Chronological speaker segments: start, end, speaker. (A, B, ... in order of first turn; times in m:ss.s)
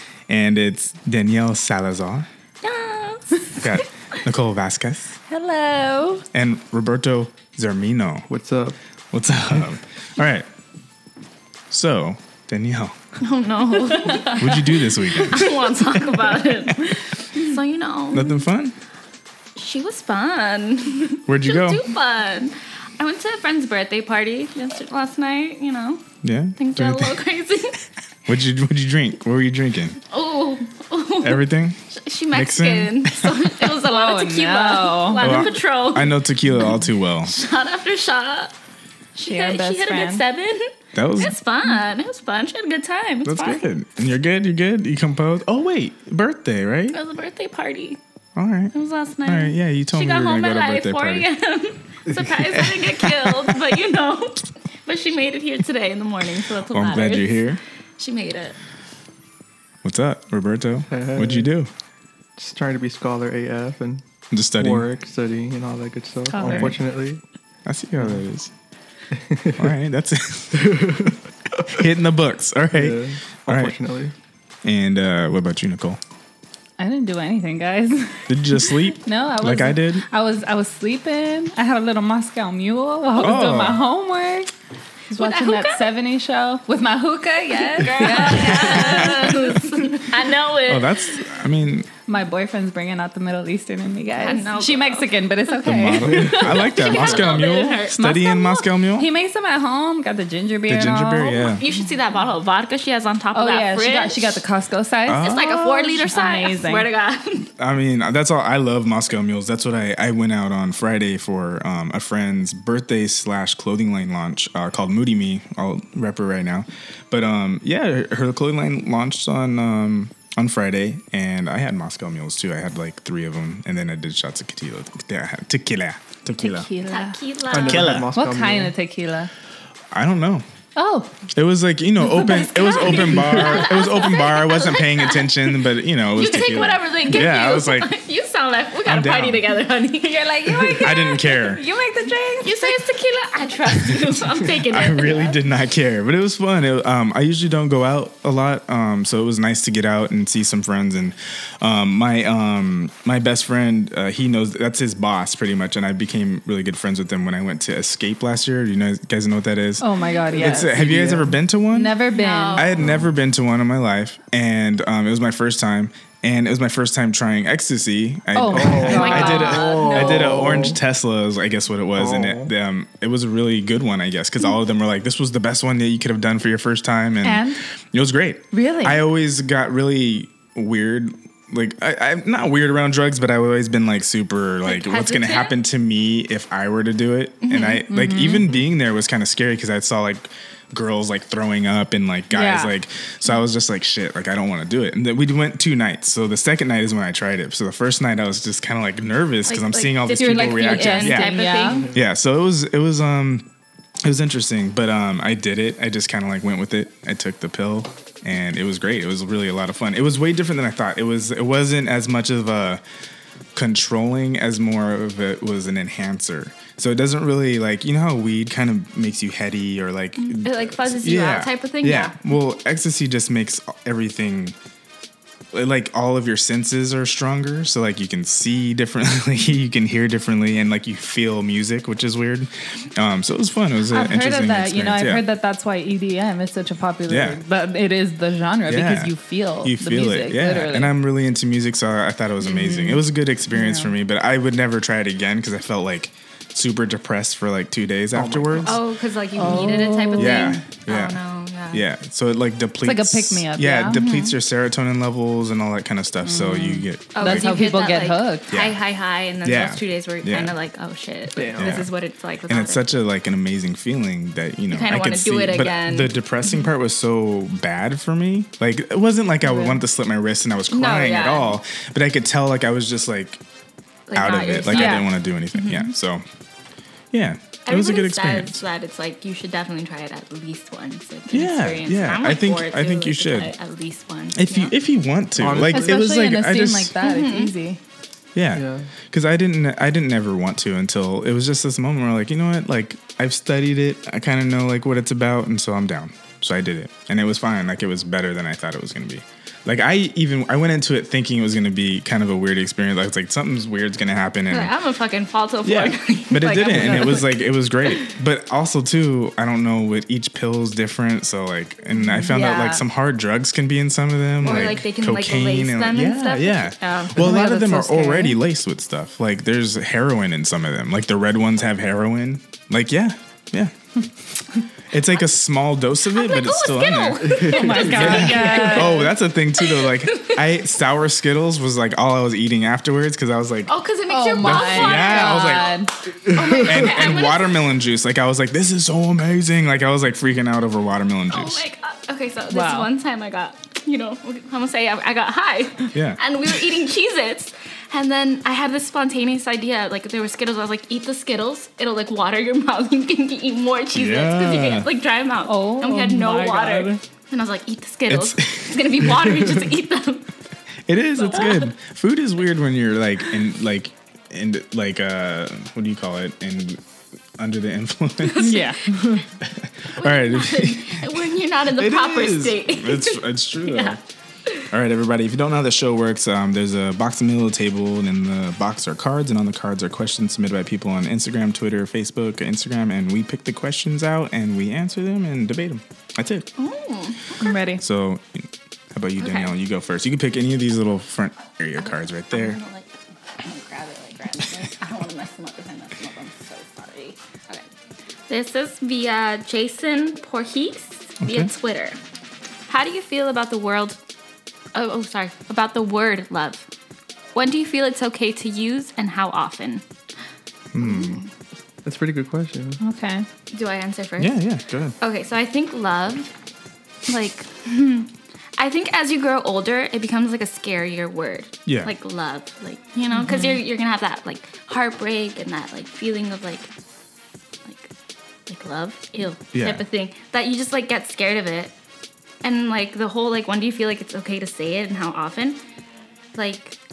0:00.3-0:02.3 A
0:02.6-0:03.8 B
0:03.6-0:05.2 A
0:05.3-0:06.2 C
0:06.3-0:08.3 A
0:08.3-0:08.8 D
0:09.1-0:10.5 A
0:11.7-0:13.0 A
0:13.2-0:18.4 B
0:14.0-0:14.4 C
0:14.3-0:17.0 A
0:18.1-0:18.8 A
0:19.6-0:26.0 B
0:21.2-0:21.8 A
0:26.2-0:27.2 A
0:26.6-0:27.8 B
0:28.3-0:30.0 A
0:30.1-0:38.5 B
0:31.2-0:31.8 A
0:32.3-0:33.7 A
0:33.8-0:35.4 C
0:35.2-0:37.4 A
0:39.2-0:40.2 C
0:39.2-0:43.6 B
0:40.9-0:41.3 A
0:43.2-0:47.0 A
0:46.9-0:48.0 B
0:48.4-0:48.7 A
0:48.7-0:57.5 B
0:49.2-0:51.3 A
0:52.4-0:53.8 A
0:56.7-0:57.6 A
0:58.0-0:58.6 B
0:59.8-1:01.7 A
1:00.9-1:01.5 D
1:02.4-1:04.0 D
1:04.3-1:04.8 A
1:04.6-1:07.2 D
1:06.3-1:06.8 C
1:06.4-1:06.8 A
1:07.6-1:08.5 A
1:09.1-1:09.7 D
1:09.6-1:10.8 A
1:10.5-1:11.2 D
1:11.6-1:13.7 A
1:12.7-1:14.1 D
1:14.6-1:16.0 A
1:16.8-1:24.5 C
1:18.3-1:20.0 A
1:23.2-1:23.8 A
1:25.1-1:29.9 C
1:25.2-1:25.9 B
1:27.7-1:31.3 B
1:28.4-1:29.5 A
1:30.6-1:31.9 A
1:32.1-1:37.0 C
1:34.2-1:35.6 B
1:35.6-1:39.1 A
1:36.1-1:38.0 B
1:38.0-1:41.6 C
1:40.7-1:41.6 A
1:41.4-1:44.4 B
1:43.3-1:46.9 C
1:45.0-1:45.5 A
1:45.1-1:47.5 B
1:47.6-2:06.7 A
2:06.4-2:07.2 C
2:06.9-2:08.0 B
2:07.5-2:08.7 D
2:07.6-2:08.1 A
2:08.1-2:09.3 C
2:09.9-2:10.4 A
2:10.8-2:11.1 C
2:11.3-2:17.9 A
2:12.1-2:15.6 B
2:12.2-2:12.9 C
2:16.1-2:21.0 B
2:18.8-2:19.4 A
2:20.0-2:22.8 C
2:20.7-2:21.6 A
2:22.4-2:25.4 B
2:24.6-3:21.4 A
2:39.8-2:40.8 C
2:40.3-2:41.3 D
2:41.7-2:42.7 C
2:42.1-2:42.9 B
2:42.8-2:43.1 D
2:48.3-2:50.0 C
2:48.5-2:50.8 D
2:48.8-2:50.6 B
2:52.0-2:52.5 D
2:57.2-2:57.6 C
2:58.5-2:59.0 C
3:04.6-3:05.5 B
3:07.4-3:07.8 B
3:07.9-3:08.4 C
3:12.3-3:12.7 C
3:19.5-3:21.9 B
3:20.1-3:21.8 C
3:21.6-3:22.0 D
3:21.9-3:23.5 A
3:24.0-3:32.8 A
3:33.5-3:44.6 A
3:40.2-3:42.2 B
3:45.5-3:55.2 A
3:53.9-4:00.9 C
3:57.1-3:57.4 A
3:58.7-4:08.8 A
4:02.4-4:03.9 C
4:08.1-4:08.8 D
4:08.6-4:11.8 B
4:09.4-4:10.6 C
4:10.1-4:11.2 A
4:11.7-4:17.5 A
4:12.8-4:14.0 C
4:13.9-4:14.4 B
4:16.2-4:18.5 C
4:17.1-4:22.8 B
4:18.5-4:18.8 A
4:19.4-4:20.5 A
4:21.3-4:21.9 D
4:21.6-4:21.9 A
4:22.5-4:33.4 A
4:24.7-4:26.2 B
4:29.4-4:29.8 C
4:30.7-4:31.6 B
4:34.1-4:35.9 B
4:34.1-4:36.2 A
4:34.7-4:35.0 C
4:37.1-4:38.6 A
4:37.6-4:44.7 B
4:41.3-4:43.5 A
4:44.3-4:46.9 A
4:45.4-4:46.0 D
4:45.6-4:47.8 C
4:47.0-4:47.5 B
4:48.3-5:04.7 A
4:48.5-4:48.9 D
5:04.5-5:07.4 B
5:05.6-5:23.7 A
5:11.9-5:12.8 C
5:14.4-5:17.4 B
5:14.4-5:14.7 D
5:17.2-5:17.5 D
5:17.3-5:18.4 C
5:24.9-5:33.7 A
5:26.1-5:28.8 B
5:27.2-5:28.9 D
5:27.5-5:29.1 C
5:29.6-5:30.4 B
5:33.7-5:35.8 B
5:34.1-5:35.9 C
5:34.4-5:35.7 A
5:36.2-5:37.2 D
5:36.3-5:37.6 B
5:36.6-5:41.6 A
5:41.3-6:00.3 B
5:42.5-5:42.9 C
5:45.9-5:46.2 A
5:53.9-5:54.9 A
5:55.4-5:57.0 C
5:58.1-5:59.3 A
6:00.9-6:06.8 A
6:01.2-6:01.7 B
6:07.4-6:08.6 A
6:08.2-6:09.2 B
6:08.4-6:09.2 C
6:09.4-6:14.0 A
6:09.9-6:14.7 B
6:14.7-6:26.5 A
6:26.6-6:27.5 B
6:27.4-6:27.8 C
6:27.8-6:32.6 A
6:29.2-6:29.5 B
6:31.8-6:37.6 B
6:38.3-6:42.0 B
6:41.2-6:41.5 A
6:42.7-6:44.0 B
6:44.7-6:46.7 B
6:47.3-6:49.8 B
6:50.7-6:51.2 A
6:50.8-6:51.3 B
6:51.8-6:52.8 D
6:52.8-6:53.2 C
6:53.5-6:54.4 B
6:54.2-6:54.9 A
6:55.0-6:56.3 B
6:57.1-7:06.7 B
7:01.6-7:01.9 A
7:03.1-7:03.6 C
7:07.6-7:07.9 B
7:08.5-7:11.7 B
7:09.5-7:09.8 A
7:12.4-7:15.6 B
7:16.3-7:16.8 B